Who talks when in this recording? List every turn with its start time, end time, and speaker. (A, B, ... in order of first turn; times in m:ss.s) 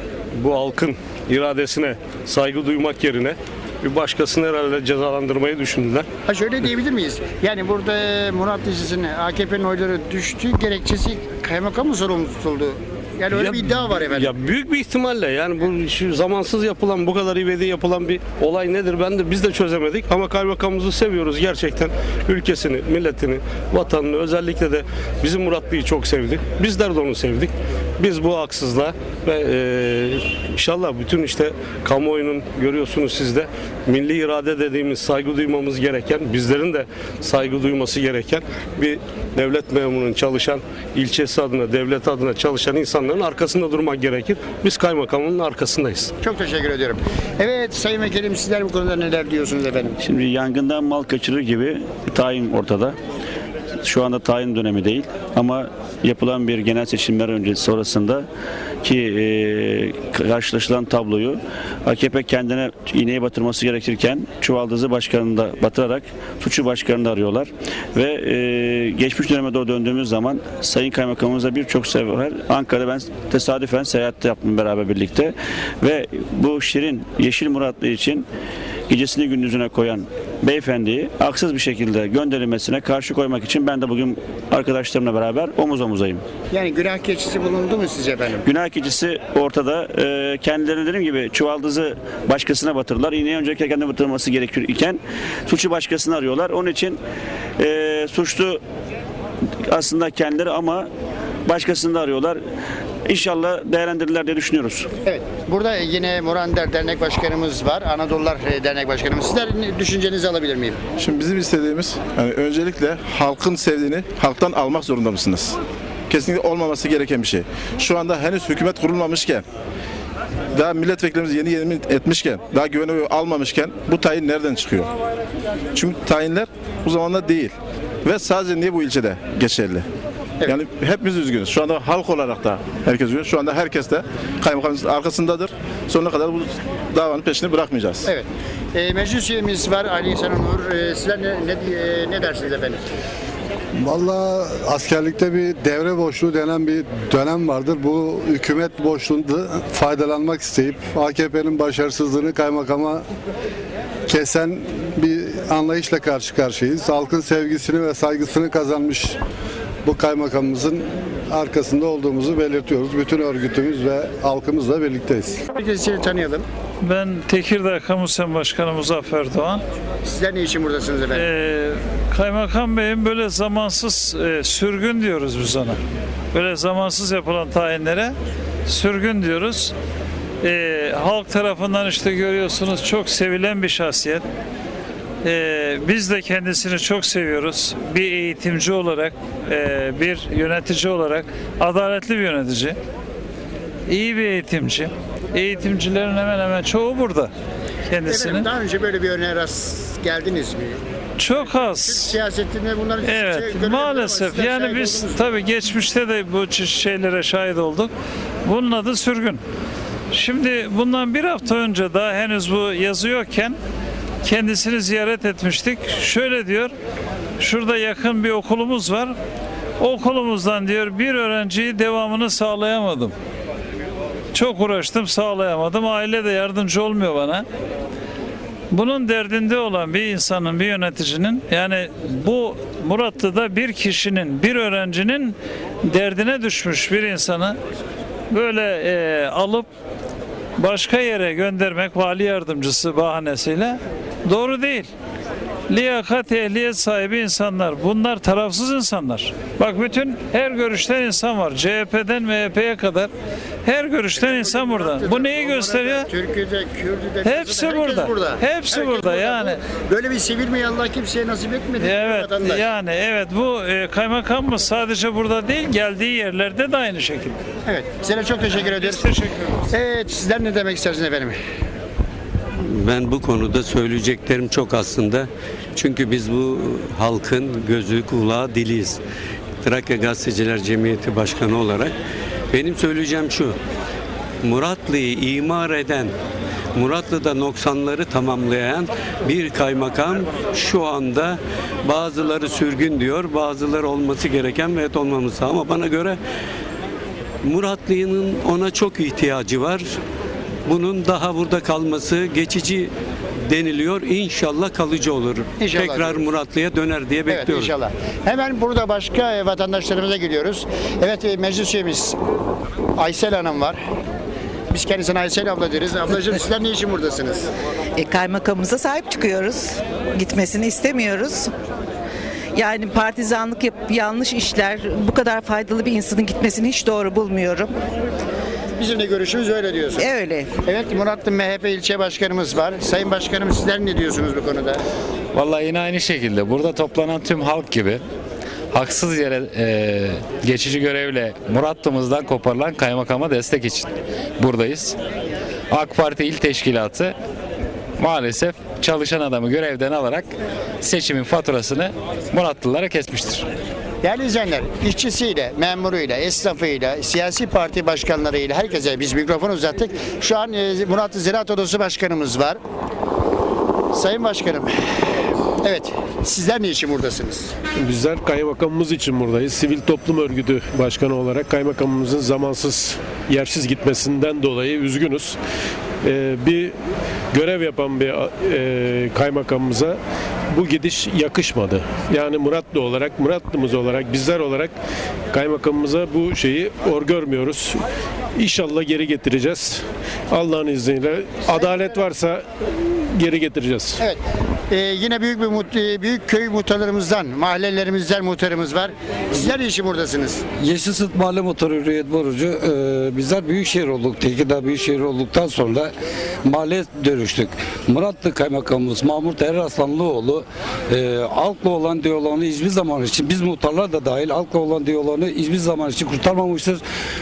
0:00.3-0:06.1 A
0:06.3-0:14.3 B
0:13.3-0:46.1 A
0:46.2-0:50.0 B
0:50.0-0:53.0 C
0:53.8-0:58.3 C
0:58.8-1:18.3 C
1:18.9-1:26.2 C
1:26.5-1:28.5 B
1:28.4-1:37.0 C
1:37.6-1:38.6 C
1:39.7-1:40.9 C
1:41.5-1:42.4 C
1:43.1-1:44.9 C
1:45.1-1:50.8 B
1:51.0-1:55.6 D
1:56.1-1:59.4 D
2:00.5-2:04.9 D
2:05.7-2:09.9 D
2:10.5-2:18.1 D
2:18.0-2:22.9 B
2:23.8-2:33.0 E
2:34.1-2:39.2 E
2:39.8-2:45.4 E
2:45.5-2:46.5 B
2:46.8-2:49.6 F
2:50.0-2:51.3 B
2:51.1-2:55.8 F
2:56.3-2:59.7 F
3:00.4-3:04.2 F
3:05.2-3:12.8 F
3:13.9-3:17.3 F
3:17.9-3:18.5 F
3:18.1-3:20.8 B
3:21.2-3:22.2 F
3:21.6-3:25.3 B
3:23.0-3:27.9 F
3:28.4-3:29.4 F
3:30.1-3:33.6 F
3:34.2-3:36.7 F
3:37.4-3:39.2 F
3:39.8-3:43.2 F
3:44.3-3:47.5 F
3:48.7-3:57.6 F
3:58.3-3:59.7 F
4:00.6-4:04.9 F
4:05.7-4:13.1 F
4:13.6-4:16.1 F
4:14.2-4:22.6 B
4:17.2-4:19.6 F
4:21.8-4:27.4 F
4:27.7-4:29.1 B
4:28.8-4:29.6 F
4:29.7-4:31.4 B
4:32.6-4:39.0 G
4:39.6-4:41.9 G
4:42.5-4:43.6 G
4:44.4-4:46.1 G
4:46.8-4:56.2 G
4:57.4-4:59.9 G
5:00.7-5:02.9 G
5:03.5-5:07.7 G
5:05.6-5:06.3 B
5:07.3-5:12.2 B
5:13.0-5:13.8 B
5:14.7-5:17.5 B
5:18.0-5:21.5 H
5:22.5-5:27.7 H
5:28.8-5:30.1 B
5:30.0-5:30.5 H
5:30.6-5:34.8 B
5:35.3-5:38.0 I
5:38.7-5:43.9 I
5:44.4-5:45.0 I
5:45.7-5:47.2 I
5:48.0-5:50.3 I
5:50.8-5:53.5 I
5:54.0-6:02.6 B
6:03.9-6:04.8 B
6:05.6-6:07.5 B
6:07.8-6:15.4 J
6:16.0-6:16.8 J
6:17.3-6:20.0 J
6:20.5-6:24.8 J
6:25.3-6:27.8 J
6:28.4-6:34.0 J
6:34.0-6:40.4 B
6:40.6-6:45.9 K
6:46.4-6:56.8 K